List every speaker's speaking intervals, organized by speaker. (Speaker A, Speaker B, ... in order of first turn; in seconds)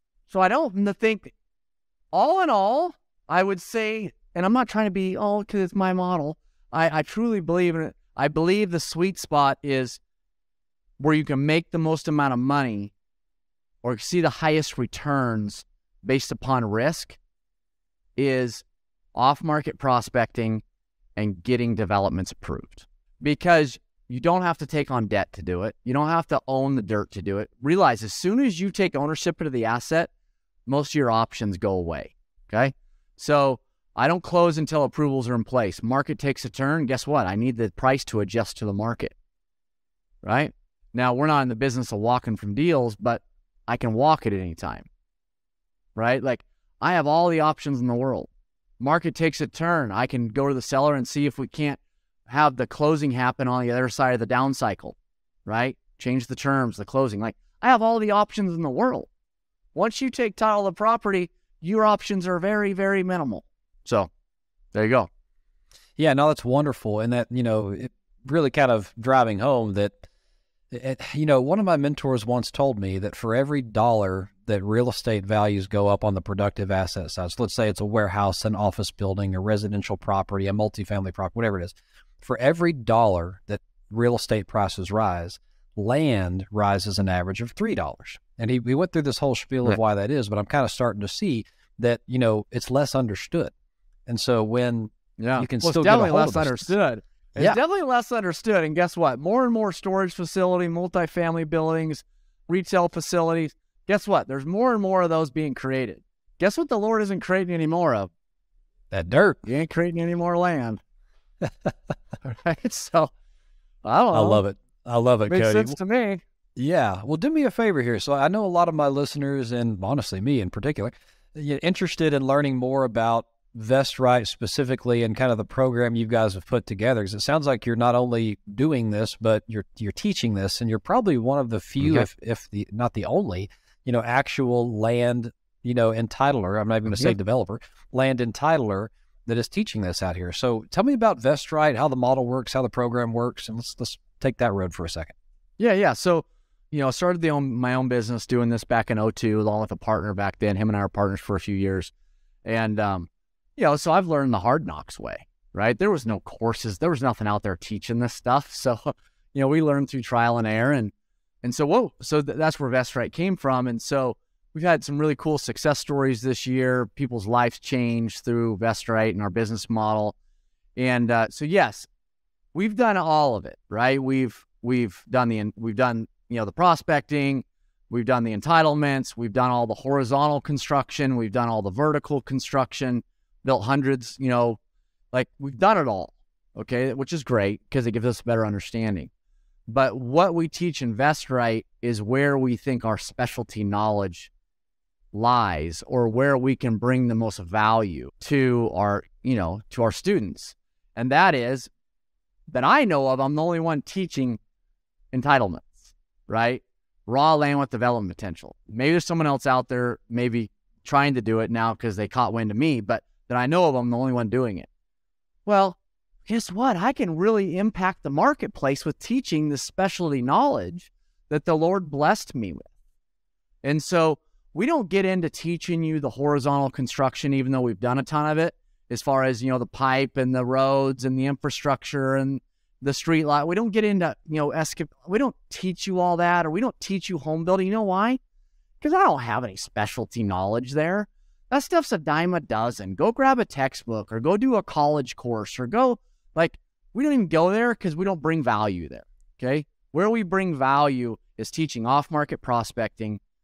Speaker A: 0.3-1.3, 2.1-10.0, 11.0-12.9, 13.8-17.2, 18.2-18.6, 19.1-20.6, 21.2-30.1, 30.7-39.1, 40.2-44.9, 46.0-48.3, 48.8-59.1, 59.8-64.1, 64.7-65.1, 95.2-108.1, 109.5-110.8, 112.2-113.1, 113.8-114.4, 115.3-116.2, 136.9-137.2, 145.6-151.9, 152.4-160.9, 161.4-170.2, 170.8-171.9, 172.5-184.6, 185.1-189.1, 189.7-194.3, 195.1-201.7, 202.5-204.4, 205.1-214.7, 215.5-222.7, 223.6-238.2, 238.8-253.2
Speaker B: 66.0-70.0, 70.7-93.5, 94.1-96.7, 108.9-109.5, 111.5-111.7, 114.1-115.8, 116.6-145.1